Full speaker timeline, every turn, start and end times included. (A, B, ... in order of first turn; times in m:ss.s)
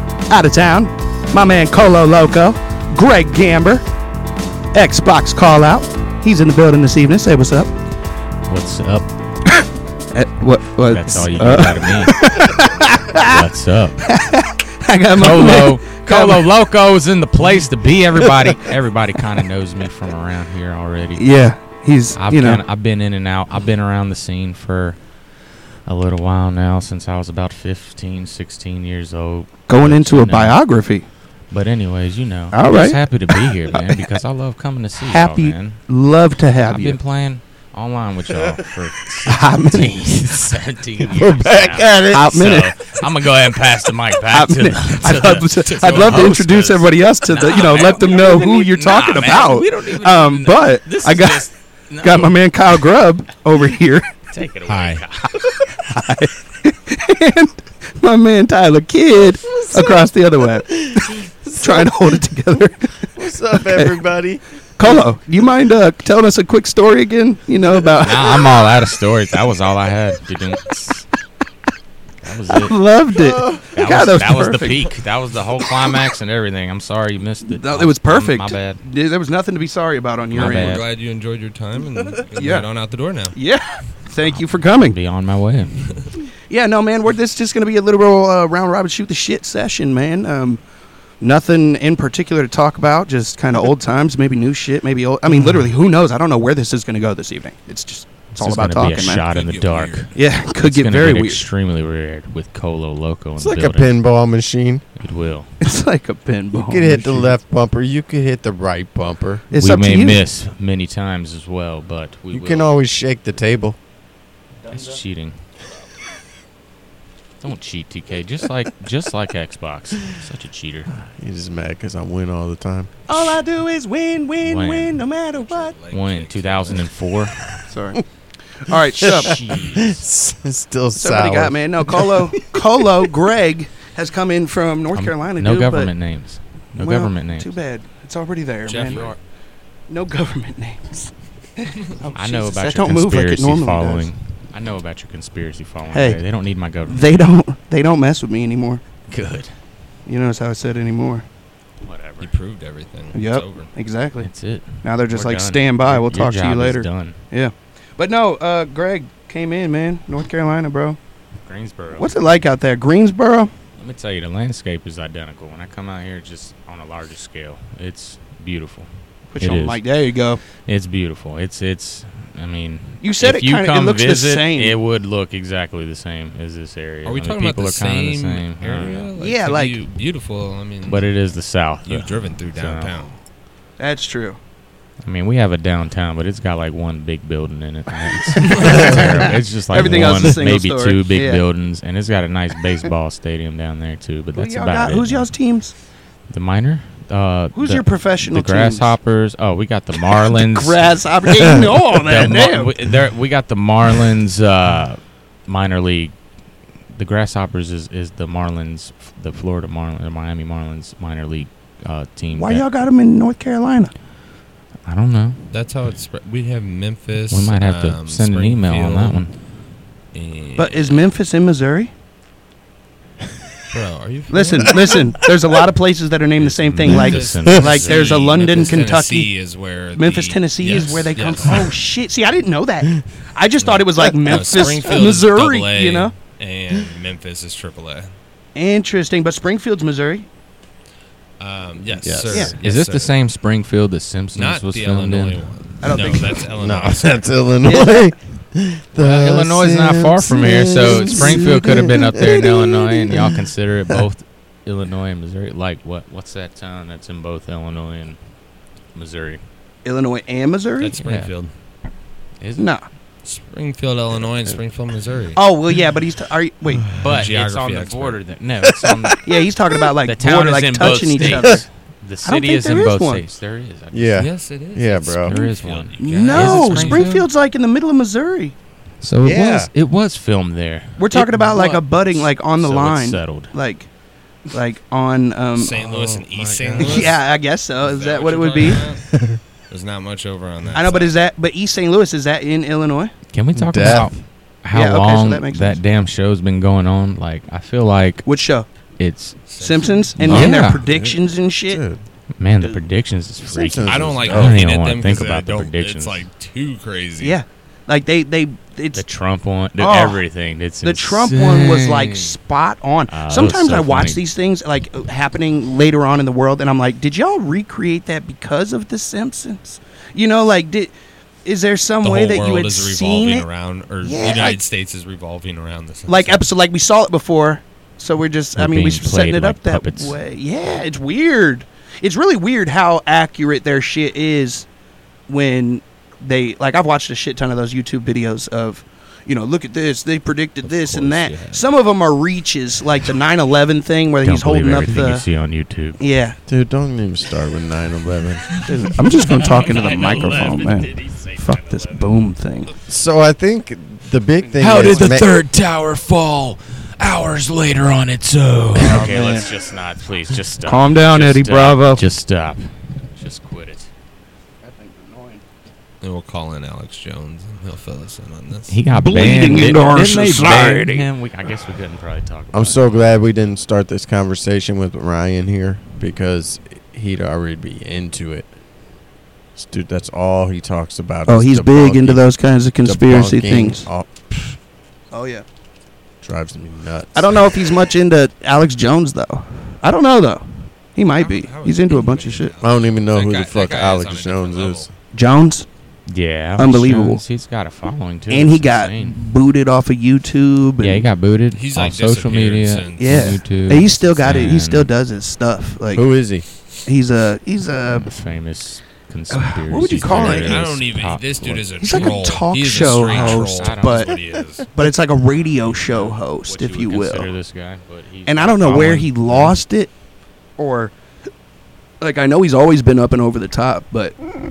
0:00.3-0:03.8 A
0:04.7-0:07.7 A
0:08.5-0:09.1 B
0:09.6-0:13.4 A
0:10.8-0:12.2 B
0:12.5-0:13.0 C
0:13.1-0:14.0 B
0:14.0-0:16.4 A
0:15.1-0:21.3 B
0:18.2-0:18.6 A
0:21.2-0:22.6 A
0:22.2-0:25.2 B
0:25.8-0:30.6 B
0:29.7-0:31.1 A
0:31.5-0:35.8 B
0:32.5-0:33.0 A
0:35.1-0:37.0 A
0:36.6-0:52.8 B
0:38.3-0:38.6 D
0:39.2-0:40.2 A
0:41.1-0:42.5 D
0:42.1-0:42.8 A
0:44.3-0:51.5 A
0:45.7-0:46.7 C
0:52.0-0:54.1 A
0:54.3-0:55.3 B
0:54.7-0:55.0 C
0:55.7-1:01.1 A
0:59.5-1:00.1 D
1:00.7-1:02.0 D
1:01.6-1:02.9 A
1:03.2-1:05.0 D
1:03.7-1:04.0 A
1:04.8-1:08.5 A
1:08.0-1:11.0 B
1:12.2-1:12.8 B
1:12.6-1:14.9 A
1:13.2-1:13.7 D
1:13.7-1:18.8 B
1:17.5-1:20.8 A
1:20.3-1:20.8 B
1:20.3-1:23.4 C
1:22.4-1:22.7 A
1:23.4-1:25.0 A
1:24.2-1:26.1 B
1:26.5-1:30.6 A
1:31.2-1:39.2 A
1:38.4-1:43.9 B
1:39.2-1:40.1 C
1:40.1-1:41.5 A
1:43.4-1:44.8 D
1:45.0-1:45.5 B
1:45.6-1:47.4 A
1:46.5-1:49.5 D
1:49.5-1:50.2 A
1:49.6-1:52.7 B
1:52.3-1:53.8 D
1:54.6-1:55.0 A
1:54.7-1:55.4 B
1:57.4-2:01.0 B
2:01.2-2:03.4 D
2:03.1-2:05.8 A
2:04.4-2:05.0 B
2:05.3-2:06.9 C
2:05.9-2:07.5 B
2:07.7-2:08.0 A
2:08.6-2:09.3 A
2:09.0-2:12.3 D
2:09.0-2:10.1 B
2:11.0-2:16.0 A
2:14.9-2:17.5 B
2:16.8-2:19.2 A
2:18.7-2:19.1 C
2:18.9-2:19.2 B
2:19.9-2:24.1 A
2:22.2-2:27.3 B
2:25.9-2:26.2 A
2:26.9-2:28.8 A
2:29.1-2:29.5 B
2:30.1-2:31.2 A
2:31.8-2:32.3 B
2:32.2-2:33.7 C
2:33.1-2:34.3 A
2:34.2-2:37.2 B
2:34.8-2:41.0 A
2:41.4-2:42.1 B
2:42.0-2:43.5 A
2:43.8-2:49.8 B
2:49.3-2:50.4 A
2:50.6-2:59.1 B
2:53.0-2:54.8 A
2:57.0-3:01.1 C
2:59.2-2:59.8 A
3:00.9-3:02.9 B
3:01.9-3:03.1 C
3:03.8-3:04.4 A
3:05.0-3:15.3 B
3:08.3-3:11.4 A
3:08.5-3:08.9 C
3:08.6-3:09.0 D
3:09.8-3:10.3 D
3:14.4-3:15.7 A
3:16.3-3:20.8 B
3:17.6-3:19.0 A
3:20.3-3:22.7 A
3:22.0-3:26.2 B
3:26.9-3:32.7 B
3:32.4-3:33.9 A
3:34.9-3:35.5 B
3:35.5-3:39.2 C
3:37.3-3:39.4 B
3:40.1-3:41.0 C
3:40.6-3:41.9 A
3:43.7-3:44.9 C
3:44.3-3:49.3 A
3:46.4-3:48.4 B
3:46.9-3:47.6 D
3:46.9-3:51.7 C
3:50.0-3:56.1 A
3:53.6-3:58.1 C
3:54.0-3:54.9 D
3:58.6-4:00.3 A
4:01.4-4:03.2 C
4:02.0-4:02.6 D
4:02.3-4:02.6 A
4:02.6-4:05.4 B
4:04.4-4:07.3 C
4:05.8-4:06.4 A
4:06.5-4:14.0 D
4:07.6-4:08.1 A
4:09.0-4:18.3 B
4:18.9-4:19.4 B
4:19.8-4:20.9 A
4:20.8-4:21.5 C
4:21.0-4:21.3 B
4:22.4-4:22.7 B
4:22.6-4:22.9 A
4:23.2-4:25.4 C
4:25.4-4:26.9 A
4:26.9-4:28.2 C
4:27.0-4:29.3 B
4:28.7-4:29.2 D
4:29.2-4:31.7 A
4:30.0-4:34.3 B
4:31.2-4:31.6 D
4:32.2-4:33.2 A
4:33.9-4:35.4 D
4:34.2-4:37.1 C
4:35.2-4:37.3 B
4:36.0-4:38.6 A
4:39.0-4:43.5 B
4:39.2-4:39.7 D
4:41.0-4:43.9 A
4:44.5-4:45.9 A
4:45.6-4:47.2 C
4:46.3-4:47.1 D
4:46.8-4:48.9 A
4:47.8-4:49.2 C
4:49.7-4:51.2 C
4:50.7-4:53.1 A
4:53.3-4:58.3 B
4:53.5-4:54.2 D
4:54.7-4:55.8 A
4:58.2-4:58.7 A
4:59.0-4:59.4 B
4:59.5-5:00.5 C
4:59.6-5:01.8 A
5:00.2-5:02.0 D
5:00.2-5:00.8 B
5:02.4-5:06.2 B
5:03.5-5:04.6 D
5:03.9-5:07.4 C
5:07.2-5:09.0 A
5:08.9-5:12.4 B
5:09.8-5:10.2 A
5:10.8-5:20.9 A
5:13.1-5:14.2 B
5:21.4-5:23.5 A
5:22.0-5:26.5 C
5:24.0-5:24.6 A
5:26.1-5:34.7 A
5:28.6-5:30.2 B
5:35.3-5:45.3 A
5:40.6-5:41.7 C
5:44.2-5:46.0 B
5:46.0-5:46.4 A
5:46.5-5:48.7 D
5:48.7-5:52.7 A
5:49.1-5:52.1 B
5:49.6-5:49.9 C
5:52.9-5:55.3 D
5:54.4-5:55.2 A
5:54.6-6:03.9 B
5:58.8-5:59.5 A
6:00.6-6:02.0 A
6:04.6-6:05.4 A
6:06.0-6:08.8 C
6:08.7-6:12.8 B
6:08.9-6:11.1 A
6:12.5-6:18.5 D
6:19.6-6:22.3 D
6:21.3-6:23.9 A
6:22.8-6:24.6 D
6:25.1-6:25.4 A
6:26.2-6:27.5 D
6:27.1-6:32.5 A
6:31.2-6:34.9 C
6:32.6-6:34.9 D
6:35.1-6:35.7 A
6:36.1-6:39.2 B
6:36.6-6:37.2 A
6:38.3-6:41.1 A
6:40.8-6:44.9 B
6:41.5-6:43.4 C
6:43.0-6:46.2 A
6:45.9-6:46.5 D
6:46.8-6:48.2 A
6:47.9-6:52.2 B
6:49.3-6:50.7 A
6:50.1-6:54.7 C
6:51.8-6:54.2 A
6:53.0-6:54.2 B
6:54.7-6:57.3 A
6:55.4-6:59.5 B
6:58.3-6:59.9 A
6:58.7-6:59.4 C
7:00.6-7:00.9 A
7:02.0-7:04.2 A